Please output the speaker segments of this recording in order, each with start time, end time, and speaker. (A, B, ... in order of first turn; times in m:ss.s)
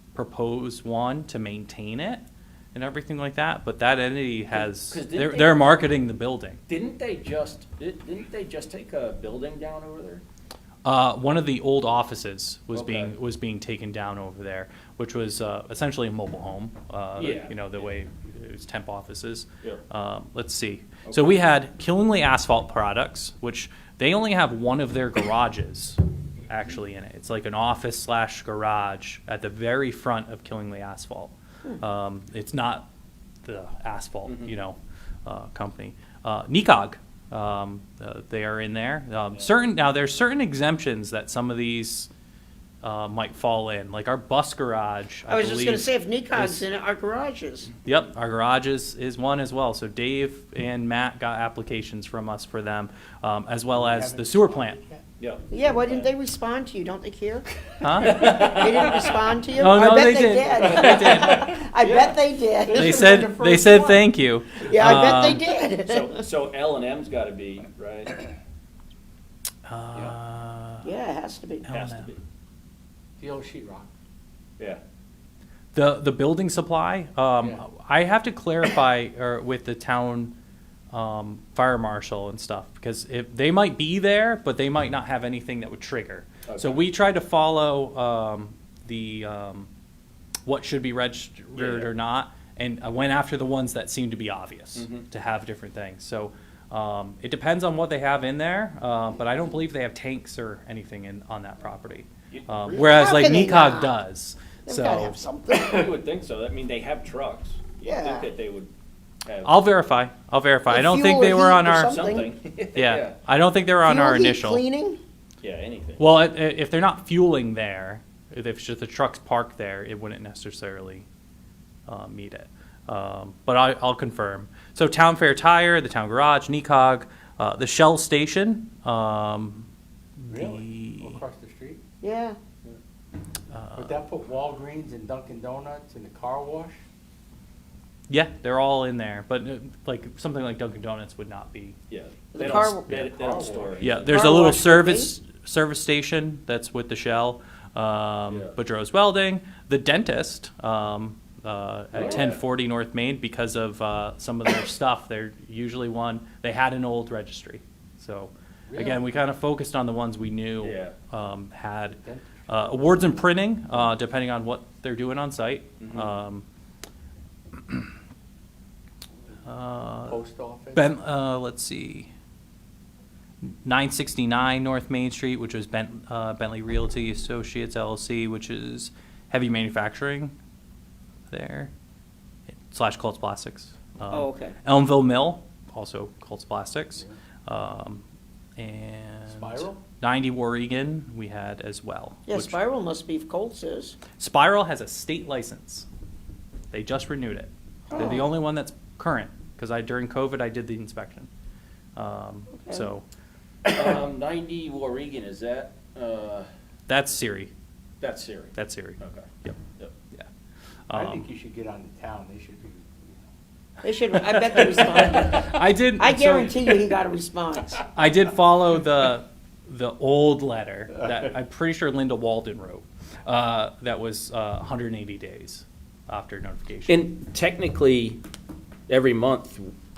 0:00.1-0:02.2 A
0:02.7-0:06.6 A
0:04.6-0:05.7 B
0:06.7-0:10.2 B
0:10.8-0:32.9 A
0:12.7-0:13.1 B
0:17.2-0:17.9 B
0:21.0-0:21.4 B
0:33.4-0:42.1 A
0:34.3-0:34.5 B
0:42.8-0:46.6 A
0:45.3-0:47.7 C
0:47.8-0:54.8 A
0:53.7-0:55.0 D
0:55.2-0:56.1 B
0:55.5-0:57.5 C
0:57.8-0:59.0 A
0:58.0-0:59.2 B
0:58.0-1:04.0 C
0:59.6-1:01.6 A
1:00.6-1:01.3 B
1:00.7-1:03.7 D
1:02.7-1:05.4 A
1:04.6-1:06.2 C
1:05.8-1:08.2 B
1:09.7-1:10.9 A
1:10.8-1:11.7 C
1:11.7-1:12.1 A
1:11.7-1:12.2 B
1:13.2-1:13.9 D
1:15.7-1:20.4 A
1:17.4-1:17.7 D
1:20.9-1:29.7 A
1:26.5-1:26.8 B
1:30.5-1:45.2 A
1:31.6-1:31.9 B
1:34.8-1:35.1 B
1:42.3-1:43.1 B
1:42.8-1:43.9 C
1:44.7-1:46.0 C
1:45.5-1:48.7 B
1:47.8-1:48.3 C
1:49.3-1:49.6 B
1:49.4-1:52.1 A
1:50.7-1:52.4 C
1:51.8-1:53.2 B
1:52.8-1:54.6 A
1:53.8-1:55.0 C
1:55.4-1:56.2 B
1:56.0-2:01.1 A
2:01.9-2:09.7 A
2:10.3-2:11.2 A
2:10.3-2:11.8 D
2:12.0-2:12.4 C
2:13.5-2:14.0 A
2:13.8-2:16.8 D
2:18.1-2:21.8 A
2:21.9-2:24.3 B
2:22.3-2:23.1 C
2:22.5-2:23.1 A
2:23.1-2:24.0 D
2:23.8-2:46.4 A
2:24.0-2:25.1 C
2:28.3-2:28.5 B
2:31.9-2:32.4 B
2:38.7-2:39.0 D
2:40.6-2:41.0 B
2:41.9-2:43.2 D
2:45.8-2:46.2 B
2:49.4-2:50.2 A
2:50.0-2:51.0 D
2:50.8-2:52.1 A
2:53.6-3:00.4 A
3:01.3-3:01.7 A
3:02.7-3:08.0 A
3:04.1-3:04.6 C
3:08.6-3:12.6 A
3:09.3-3:09.8 D
3:12.3-3:14.0 C
3:14.2-3:15.9 A
3:16.7-3:21.3 A
3:17.9-3:18.3 C
3:22.0-3:23.0 A
3:22.6-3:22.9 C
3:23.6-3:26.5 B
3:26.9-3:27.5 A
3:28.0-3:29.9 B
3:28.6-3:29.6 A
3:30.9-3:31.3 A
3:30.9-3:33.3 D
3:33.8-3:37.9 C
3:34.6-3:36.6 A
3:37.9-3:47.0 A
3:46.9-3:48.2 B
3:48.9-3:49.7 B